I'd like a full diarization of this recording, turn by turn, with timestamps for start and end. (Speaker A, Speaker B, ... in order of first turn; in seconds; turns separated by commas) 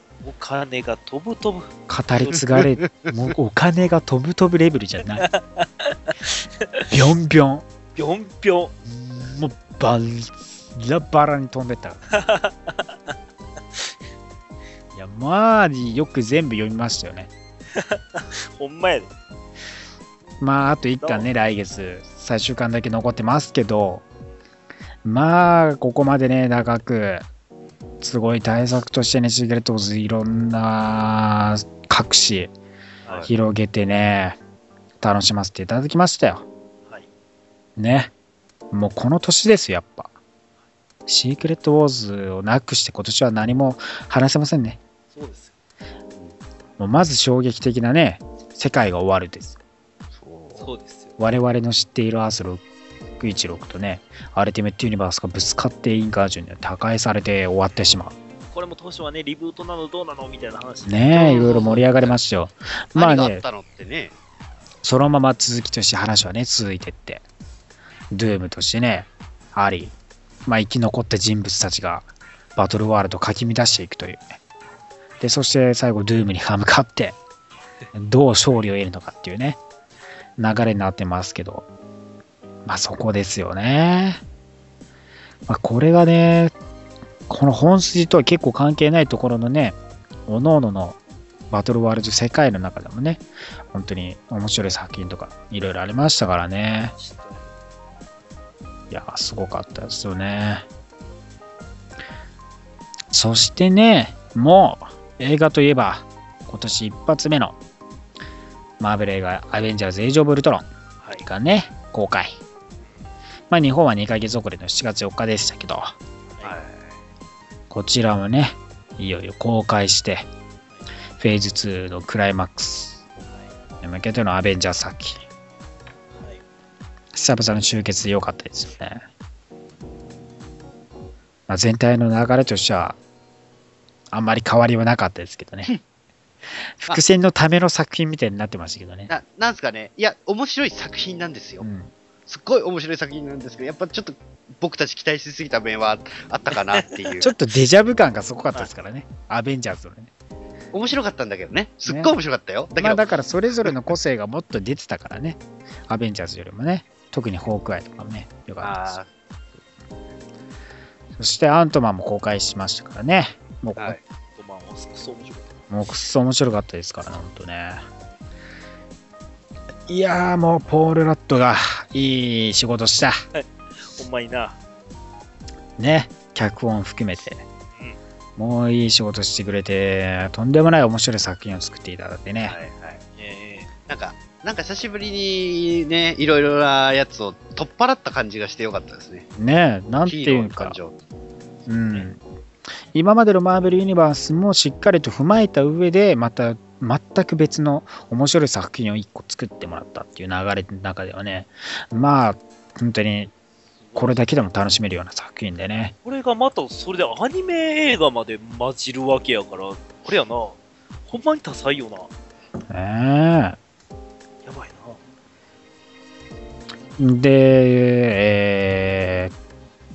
Speaker A: 0.2-2.4, Speaker B: 1.9-5.3, Speaker C: 2.6-3.1, Speaker A: 5.2-6.9, Speaker B: 6.9-7.6, Speaker A: 8.0-8.7, Speaker B: 8.8-12.0, Speaker A: 12.1-12.9, Speaker B: 14.9-17.3, Speaker A: 17.7-19.1, Speaker B: 20.4-24.0, Speaker A: 21.0-21.3, Speaker B: 25.0-27.2, Speaker B: 28.0-32.5, Speaker B: 33.2-34.4, Speaker B: 35.0-36.4, Speaker B: 37.8-38.1, Speaker B: 38.7-40.1, Speaker B: 41.1-44.8, Speaker A: 45.1-45.5, Speaker B: 46.8-49.6, Speaker C: 50.2-50.7, Speaker A: 50.6-51.1, Speaker B: 51.2-52.6, Speaker B: 53.2-58.1, Speaker A: 58.5-61.9, Speaker B: 60.8-63.4, Speaker C: 61.1-62.1, Speaker C: 62.9-64.1, Speaker B: 64.8-67.2, Speaker B: 68.1-69.9, Speaker B: 70.4-74.2, Speaker B: 75.2-77.2, Speaker B: 77.9-79.6, Speaker B: 80.4-81.6, Speaker B: 82.6-84.2, Speaker B: 85.5-86.5, Speaker B: 87.3-89.8, Speaker B: 90.3-91.0, Speaker B: 91.5-96.9, Speaker A: 97.0-97.5, Speaker B: 98.9-100.7, Speaker B: 103.1-107.5, Speaker B: 108.8-110.7, Speaker A: 111.0-111.2, Speaker B: 111.2-112.4, Speaker B: 113.5-115.9, Speaker C: 116.4-117.0, Speaker B: 117.7-120.2, Speaker B: 121.2-123.0, Speaker A: 123.3-123.5, Speaker B: 123.8-125.2, Speaker A: 126.1-126.4, Speaker B: 127.1-129.0, Speaker B: 131.5-133.0, Speaker B: 134.1-135.7, Speaker B: 136.8-139.1, Speaker C: 139.1-141.7, Speaker B: 141.6-141.9, Speaker C: 142.3-147.3, Speaker A: 146.8-147.1, Speaker B: 147.2-150.1, Speaker C: 150.7-153.0, Speaker B: 151.8-152.1, Speaker B: 152.8-159.0, Speaker C: 158.6-159.1, Speaker B: 161.2-164.0, Speaker C: 163.8-164.0, Speaker A: 164.3-165.6, Speaker B: 165.7-167.8, Speaker B: 169.9-173.2, Speaker A: 173.3-174.6, Speaker B: 175.8-177.4, Speaker B: 178.4-182.5, Speaker C: 182.4-183.0, Speaker A: 183.2-183.7, Speaker C: 183.9-189.3, Speaker B: 189.4-190.8, Speaker C: 190.1-191.0, Speaker B: 191.7-192.2, Speaker B: 192.9-203.3, Speaker A: 203.9-204.2, Speaker B: 203.9-205.9, Speaker A: 206.0-212.1, Speaker B: 212.7-213.6, Speaker A: 214.4-215.0, Speaker B: 217.0-219.3